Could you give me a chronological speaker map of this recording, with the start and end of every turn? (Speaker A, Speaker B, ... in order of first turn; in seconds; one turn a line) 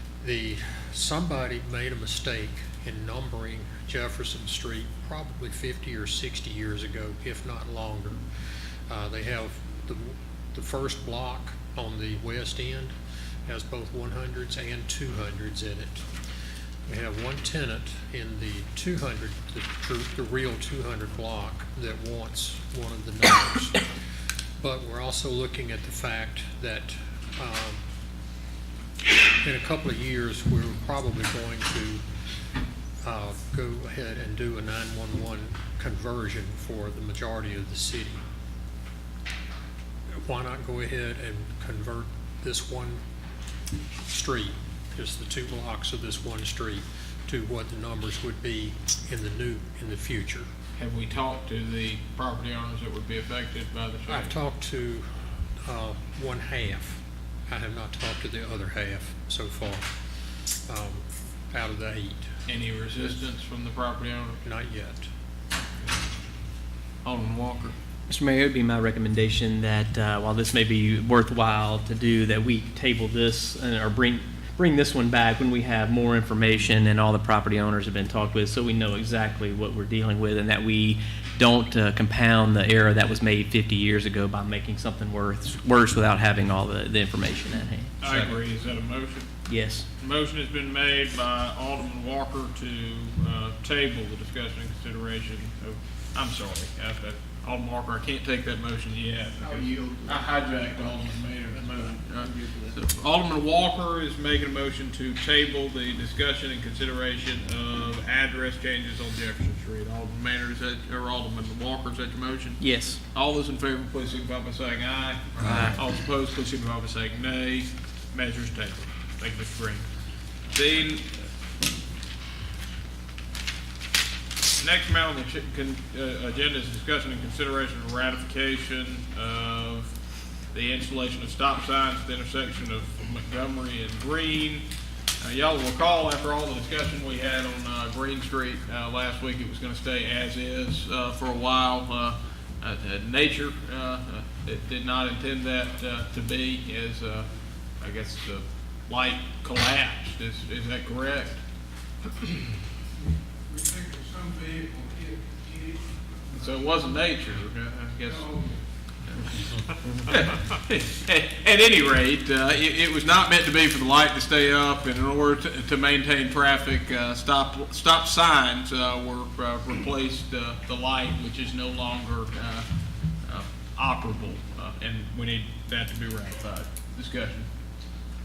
Speaker A: 0.2-8.2
Speaker A: 8.9-12.9
Speaker A: 13.5-16.1
Speaker A: 16.9-23.9
Speaker A: 24.6-27.8
Speaker A: 29.4-32.0
Speaker A: 33.0-38.2
Speaker A: 40.2-43.0
Speaker A: 44.1-50.5
Speaker B: 50.8-54.4
Speaker A: 54.1-59.9
Speaker A: 60.7-62.3
Speaker B: 62.5-64.4
Speaker A: 64.4-65.1
Speaker B: 67.0-67.8
Speaker C: 68.1-88.0
Speaker B: 88.0-89.3
Speaker C: 89.5-89.9
Speaker B: 90.0-119.9
Speaker D: 99.4-100.8
Speaker D: 101.9-102.7
Speaker C: 112.6-113.0
Speaker C: 115.4-115.8
Speaker B: 120.5-121.2
Speaker B: 124.6-129.9
Speaker B: 130.5-134.7
Speaker B: 135.2-147.3
Speaker B: 147.8-151.4
Speaker B: 152.2-152.5
Speaker D: 153.9-155.4
Speaker B: 156.3-158.4
Speaker B: 160.0-172.7
Speaker B: 173.2-177.5